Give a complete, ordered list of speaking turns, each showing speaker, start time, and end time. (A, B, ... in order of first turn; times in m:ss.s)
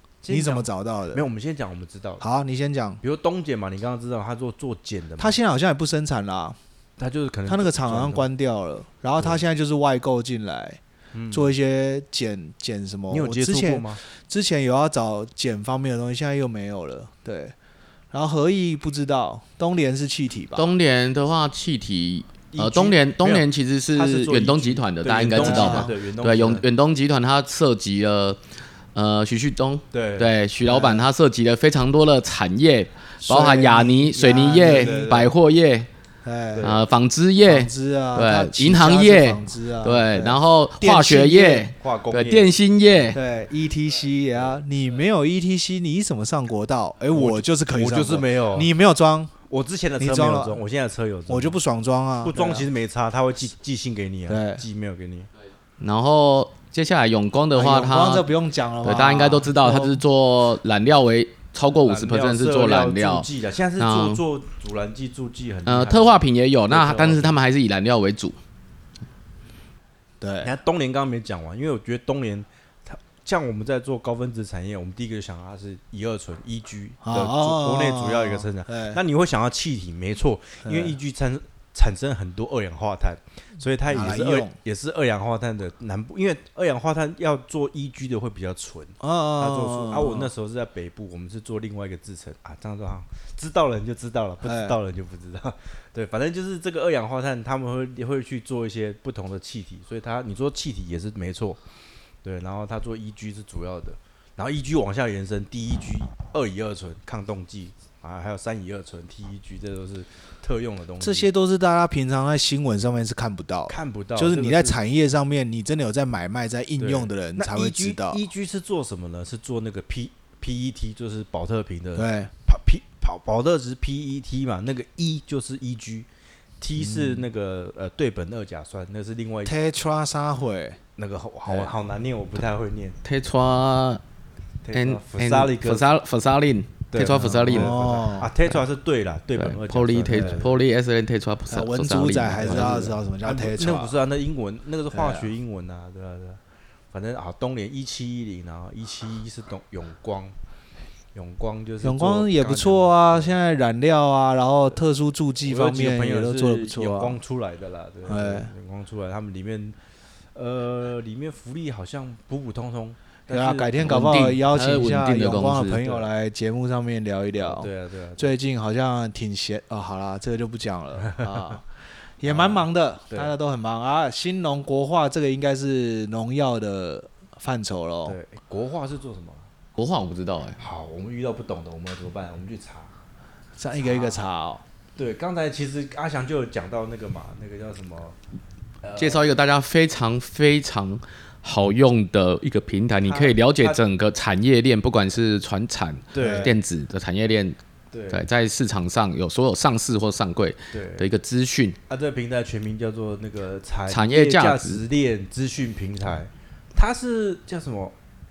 0:00.2-0:02.2 A
0:00.3-0:01.2 B
0:02.2-0:03.0 B
0:03.0-0:05.4 A
0:05.2-0:06.6 B
0:07.0-0:08.3 A
0:07.5-0:10.8 B
0:09.2-0:09.4 A
0:11.1-0:11.5 A
0:11.3-0:17.5 B
0:13.1-0:14.0 A
0:18.1-0:20.7 B
0:20.5-0:28.4 C
0:22.5-0:26.6 A
0:25.3-0:25.9 B
0:28.9-0:35.9 C
0:29.9-0:30.4 A
0:30.6-0:31.1 B
0:33.2-0:35.1 B
0:34.5-0:35.3 A
0:36.2-0:36.7 B
0:36.5-0:36.8 A
0:36.6-0:43.2 C
0:37.4-0:41.7 B
0:41.8-0:43.1 A
0:43.1-0:49.3 B
0:47.1-0:48.7 A
0:49.5-0:51.6 A
0:50.0-0:50.6 B
0:51.3-0:52.7 B
0:52.2-0:55.3 A
0:54.3-0:54.6 B
0:55.8-0:58.3 C
0:57.5-1:00.0 B
0:58.8-1:03.3 C
1:01.8-1:07.4 A
1:03.8-1:04.2 C
1:05.6-1:08.4 C
1:10.2-1:10.5 B
1:10.4-1:41.6 A
1:17.0-1:19.0 B
1:20.6-1:21.0 B
1:23.9-1:24.5 B
1:29.0-1:30.3 B
1:34.4-1:34.8 B
1:42.2-1:51.3 A
1:51.0-1:58.2 B
1:53.7-1:54.8 A
1:56.8-2:06.1 A
2:01.9-2:02.3 B
2:06.6-2:09.6 A
2:06.8-2:07.2 B
2:09.4-2:10.8 B
2:11.0-2:13.0 A
2:13.0-2:14.0 C
2:14.6-2:15.8 A
2:14.7-2:17.9 C
2:16.9-2:20.6 A
2:17.2-2:18.3 B
2:19.4-2:22.9 C
2:20.1-2:20.4 B
2:21.5-2:24.0 B
2:22.4-2:26.4 A
2:24.9-2:25.3 B
2:26.9-2:30.3 A
2:31.1-2:33.4 A
2:31.8-2:37.2 B
2:35.4-2:39.8 A
2:38.1-2:38.5 B
2:40.3-2:44.0 A
2:43.3-2:51.6 B
2:43.8-2:45.8 C
2:47.3-2:48.3 A
2:51.0-2:51.6 A
2:52.2-2:58.2 B
2:52.2-2:53.3 A
2:58.0-2:59.5 A
2:59.8-3:00.6 C
3:00.6-3:02.9 A
3:03.6-3:04.6 B
3:03.8-3:04.2 A
3:05.0-3:08.2 A
3:08.8-3:09.3 A
3:09.0-3:17.6 C
3:13.0-3:13.8 A
3:16.1-3:16.5 A
3:16.2-3:16.5 B
3:17.9-3:18.2 A
3:18.1-3:21.8 C
3:20.7-3:21.1 A
3:21.9-3:27.9 A
3:23.9-3:24.8 C